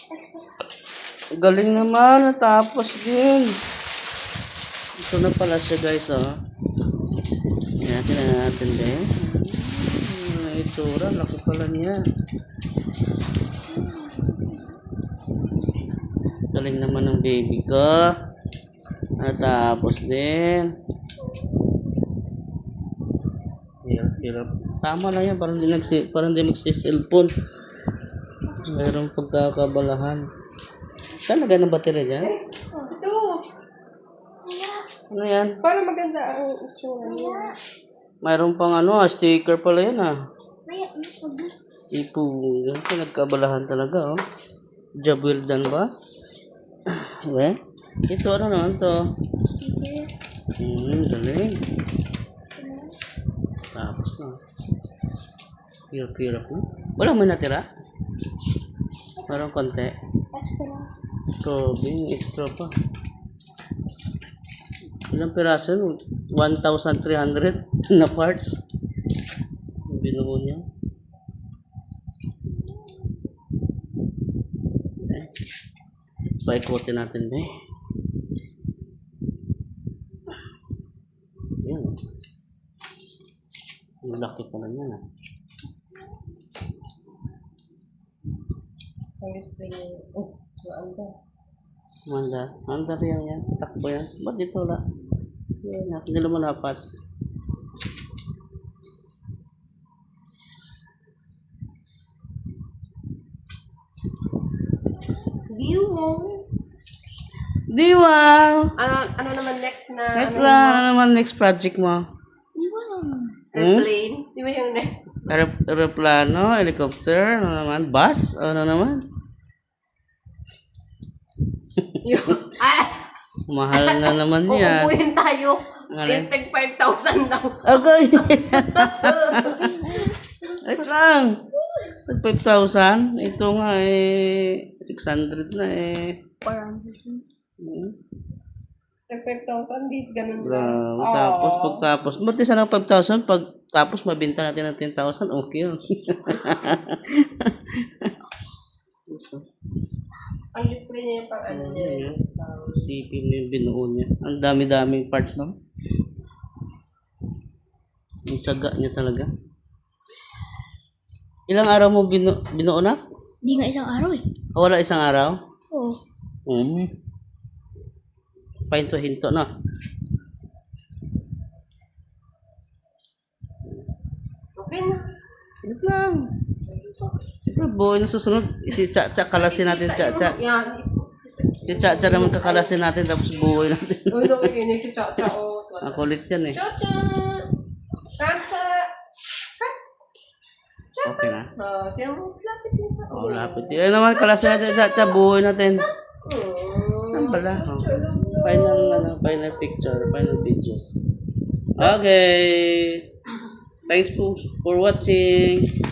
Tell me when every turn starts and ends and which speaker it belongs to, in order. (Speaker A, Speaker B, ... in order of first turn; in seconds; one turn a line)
Speaker A: 0.1-0.4
Speaker B: 1.4-3.5
Speaker B: 5.0-6.3
Speaker B: 7.8-12.0
Speaker B: 16.5-18.1
Speaker B: 19.2-20.7
Speaker B: 23.8-27.3
Speaker B: 28.6-30.2
Speaker B: 31.2-32.3
Speaker C: 32.9-33.4
Speaker A: 34.5-34.8
Speaker B: 35.1-35.5
Speaker C: 35.6-37.5
Speaker A: 37.0-37.5
Speaker B: 38.2-40.1
Speaker A: 40.7-41.5
Speaker B: 41.9-44.2
Speaker B: 45.0-45.9
Speaker B: 46.9-48.9
Speaker A: 49.5-50.1
Speaker B: 50.6-51.6
Speaker A: 52.6-52.9
Speaker B: 53.7-54.4
Speaker B: 55.9-57.7
Speaker B: 59.3-60.0
Speaker A: 60.3-60.9
Speaker B: 61.4-62.7
Speaker B: 65.1-68.6
Speaker B: 69.9-70.7
Speaker B: 75.1-75.3
Speaker B: 76.4-77.5
Speaker B: 81.6-81.9
Speaker B: 84.0-85.0
Speaker C: 89.2-91.1
Speaker B: 92.1-94.8
Speaker B: 95.6-96.8
Speaker C: 105.5-106.4
Speaker B: 107.7-108.7
Speaker C: 108.8-110.9
Speaker B: 110.2-112.0
Speaker A: 112.6-113.4
Speaker C: 113.5-115.0
Speaker B: 113.6-113.8
Speaker B: 115.3-119.0
Speaker C: 122.0-123.1
Speaker B: 123.5-124.9
Speaker C: 123.7-130.6
Speaker B: 125.9-126.3
Speaker B: 127.6-129.8
Speaker B: 130.6-131.4
Speaker B: 131.9-136.2
Speaker C: 136.4-137.2
Speaker B: 137.6-137.9
Speaker C: 139.1-141.9
Speaker B: 140.4-148.1
Speaker B: 149.1-149.5
Speaker C: 150.5-152.9
Speaker B: 151.5-152.2
Speaker B: 152.7-155.6
Speaker B: 158.3-159.3
Speaker B: 161.5-163.0
Speaker A: 163.4-164.2
Speaker B: 164.6-165.3
Speaker A: 165.7-166.0
Speaker B: 166.5-166.9
Speaker B: 168.7-169.5
Speaker C: 174.6-175.1
Speaker B: 175.7-176.3
Speaker C: 176.7-177.2
Speaker B: 177.5-180.4
Speaker C: 179.3-182.8
Speaker B: 181.7-184.5
Speaker C: 184.1-187.5
Speaker B: 185.8-186.6
Speaker C: 188.2-188.9
Speaker C: 191.0-195.2
Speaker B: 191.0-191.5
Speaker B: 193.1-195.9
Speaker C: 195.8-200.5
Speaker B: 197.1-201.0
Speaker B: 201.8-203.0
Speaker B: 203.9-205.7